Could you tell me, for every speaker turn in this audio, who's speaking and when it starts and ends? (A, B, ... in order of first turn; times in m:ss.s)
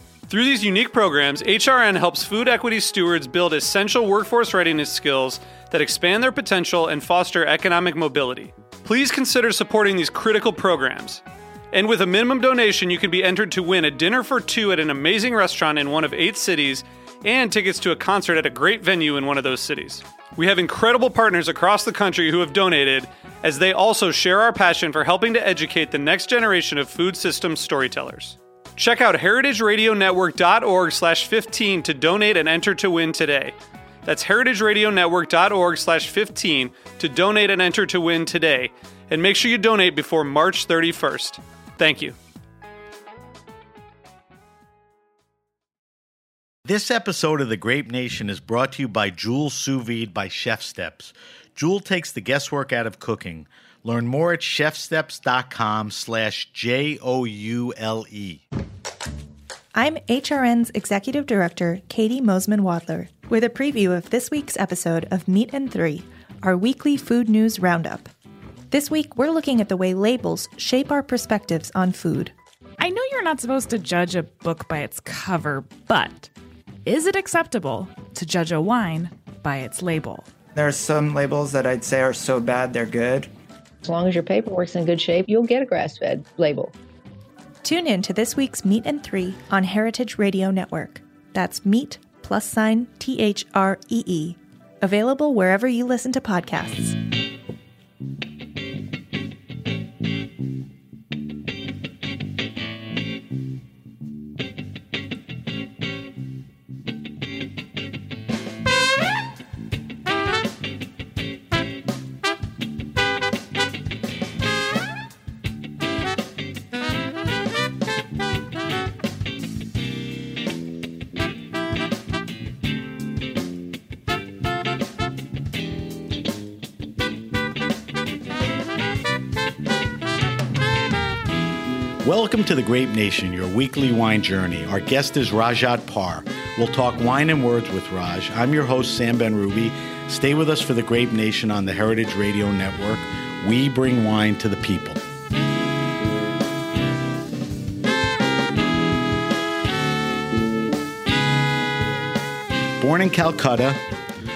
0:00.3-0:42.2 A
0:46.6-0:58.4 B
0:59.8-1:08.1 C
1:08.7-1:12.3 C
1:12.8-1:16.3 D
1:16.8-1:20.3 D
1:20.6-1:23.3 E
1:23.8-1:26.7 F
1:27.6-1:37.0 C
2:12.0-2:25.0 B
2:32.8-2:33.8 B